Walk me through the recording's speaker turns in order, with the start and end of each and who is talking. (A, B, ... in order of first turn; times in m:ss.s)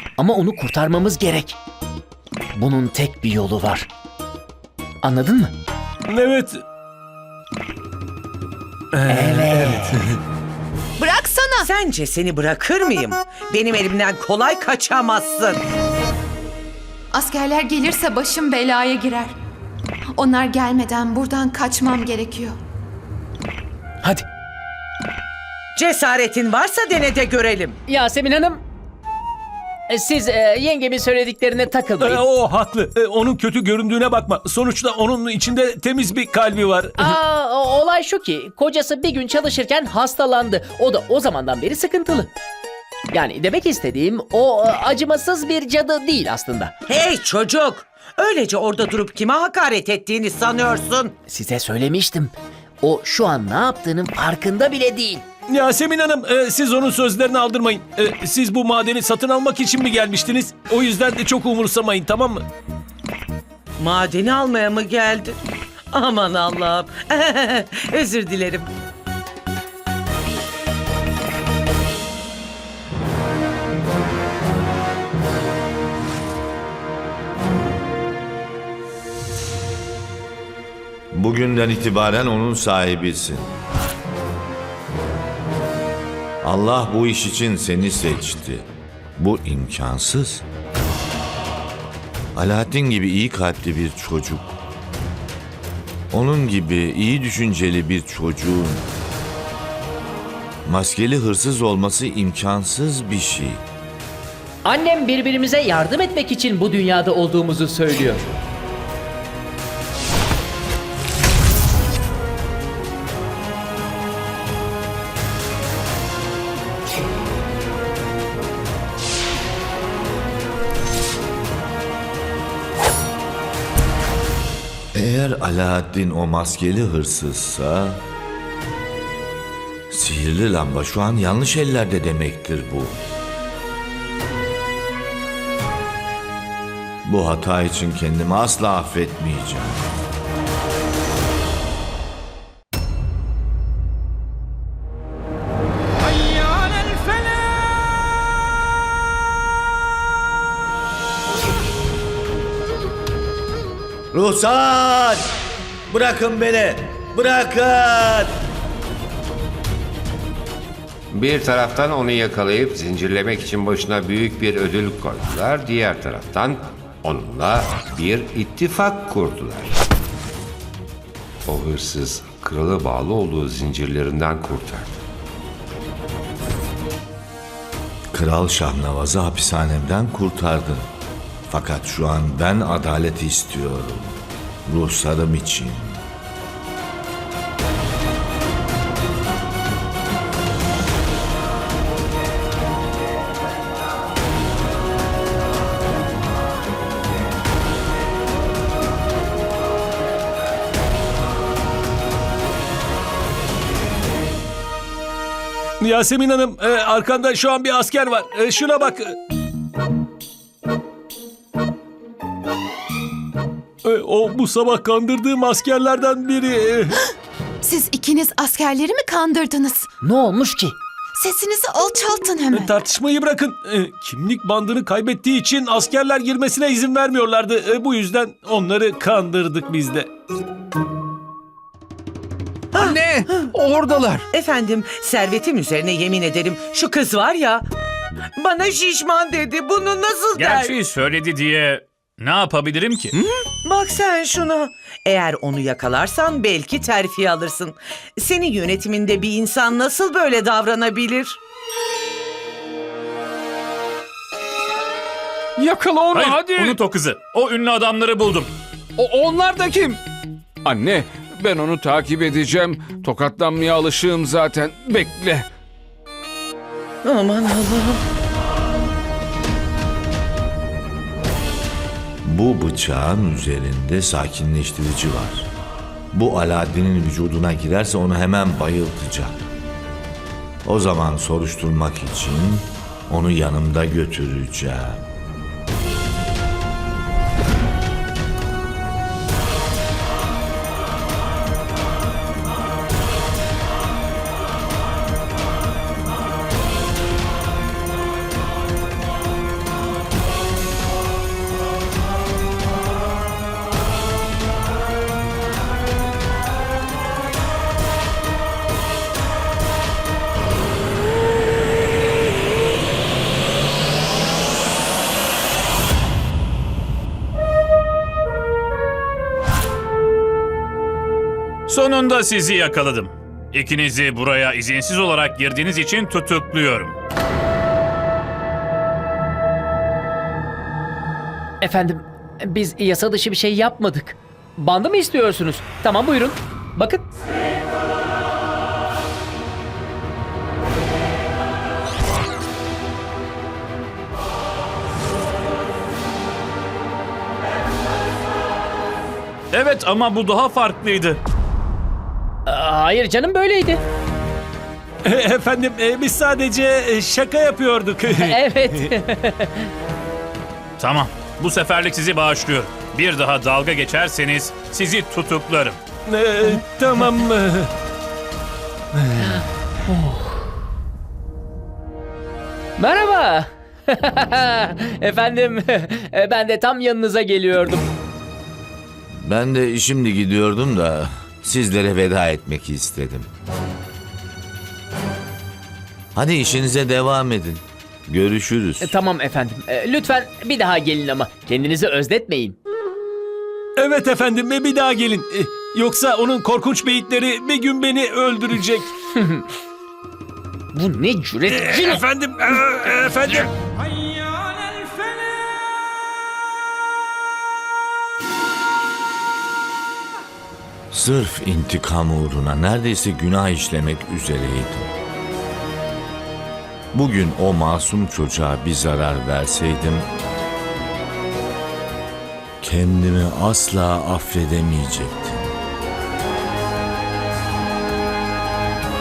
0:00.2-0:01.6 A
0:02.5-0:03.9 A
0:05.0-0:05.5 A
0:06.1-0:06.5 B
0:09.1-0:10.0 A
0:09.2-0:09.7 B
0:11.0-0:11.7 C
0:11.6-0:15.6 D
0:17.1-0:19.4 C
0:20.2-0:22.6 C
0:25.8-0:27.8 D
0:27.9-0:28.6 A
0:29.9-0:32.2 A
0:32.0-0:36.9 B
0:37.0-0:42.3 A
0:43.1-0:46.7 A
0:46.9-0:51.1 D
0:51.3-0:55.2 A
0:55.5-1:02.4 B
1:03.8-1:05.4 D
1:05.9-1:08.7 D
1:21.1-1:23.5 E
1:26.4-1:30.4 E
1:32.4-1:34.5 E
1:36.1-1:38.8 E
1:40.7-1:43.6 E
1:44.6-1:48.2 A
2:04.9-2:08.0 E
2:09.9-2:13.0 E
2:17.0-2:19.8 E
2:34.1-2:35.4 E
2:35.9-2:38.4 E
2:41.1-2:49.8 F
2:51.5-2:55.0 F
2:58.1-3:00.9 E
3:01.5-3:06.0 E
3:25.8-3:29.1 B
3:33.8-3:37.0 B
3:37.6-3:39.9 C
3:40.0-3:40.8 A
3:41.2-3:42.7 C
3:42.6-3:50.1 B
3:52.7-3:53.6 D
3:53.0-3:54.2 G
3:54.3-3:57.6 D
3:58.4-4:00.7 D
4:00.4-4:03.2 H
4:03.6-4:11.4 D
4:15.6-4:16.8 G
4:16.1-4:18.5 H
4:19.0-4:20.0 G
4:20.7-4:25.5 G
4:27.0-4:28.0 D
4:32.2-4:35.5 E
4:36.1-4:39.5 E
4:40.6-4:45.1 E
5:21.7-5:26.9 H
5:31.6-5:37.1 A
5:49.5-5:51.2 H
5:52.5-5:53.8 A
5:55.1-5:58.2 B
5:58.2-5:59.7 A
6:00.8-6:05.8 H
6:06.1-6:07.7 B
6:09.9-6:10.4 A
6:12.8-6:17.9 A
6:19.1-6:23.3 E
6:26.2-6:28.9 E
6:28.8-6:32.6 A
6:33.8-6:38.9 B
6:39.2-6:39.4 A
6:40.7-6:42.0 A
6:41.8-6:43.5 B
6:50.9-6:54.9 E
6:56.9-7:00.1 E
7:02.6-7:05.6 E